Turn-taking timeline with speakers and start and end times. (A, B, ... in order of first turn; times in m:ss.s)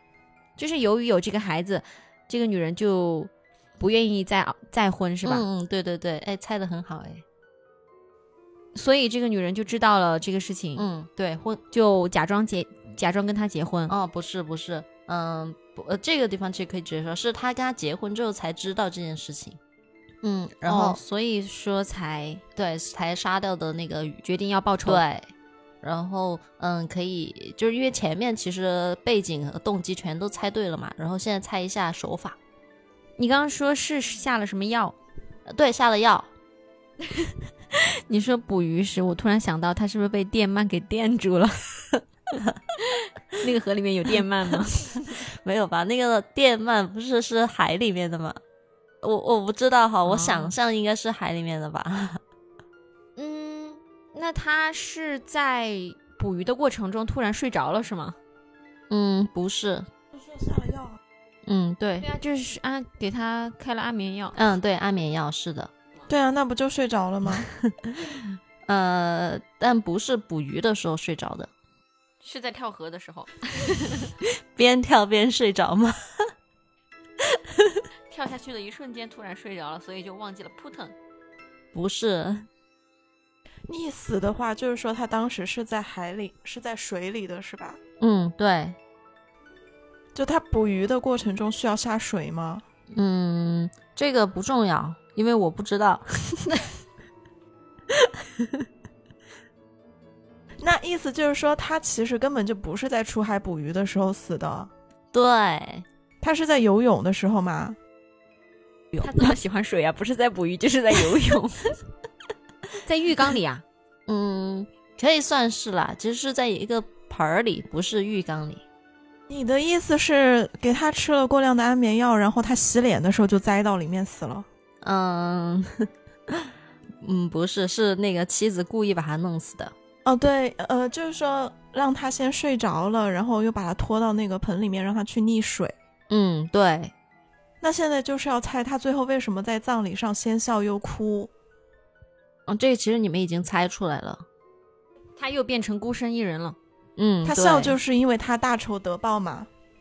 0:00.6-0:05.4 A
0:05.2-0:07.2 B
0:08.7-0:10.8 A
0:10.8-0:11.6 B
0:11.7-0:13.9 A
0:13.9-0:19.6 B
0:20.2-0:21.0 B
0:20.6-0:22.4 A
0:22.6-0:24.2 B
0:24.2-0:25.0 A
0:24.8-0:25.3 B
0:25.8-0:32.4 B
0:33.2-0:34.9 A
0:35.5-0:36.3 B
0:37.7-0:41.6 A
0:43.4-0:45.1 A
0:45.4-0:48.4 B
0:49.0-0:52.2 B
0:50.0-0:50.5 A
0:53.2-0:58.2 A
0:58.9-0:59.9 B
1:00.1-1:01.0 C
1:01.4-1:02.1 B
1:02.0-1:04.4 A
1:04.3-1:05.7 B
1:06.1-1:07.5 C
1:07.7-1:11.5 B
1:12.2-1:14.1 A
1:14.2-1:16.3 B
1:17.2-1:17.8 B
1:18.1-1:20.9 A
1:21.7-1:22.5 B
1:23.7-1:27.8 C
1:28.0-1:28.8 B
1:30.1-1:32.6 C
1:32.9-1:36.6 B
1:38.0-1:38.6 B
1:40.6-1:44.7 C
1:45.1-1:45.8 B
1:46.2-1:47.8 C
1:49.0-1:51.7 A
1:52.8-1:53.6 A
1:54.1-1:58.6 B
1:59.3-2:04.4 C
2:04.8-2:06.5 B
2:07.0-2:09.7 B
2:10.0-2:15.7 C
2:16.1-2:16.9 B
2:17.6-2:21.3 C
2:22.5-2:24.2 B
2:25.2-2:26.6 A
2:27.0-2:27.8 B
2:27.2-2:29.5 C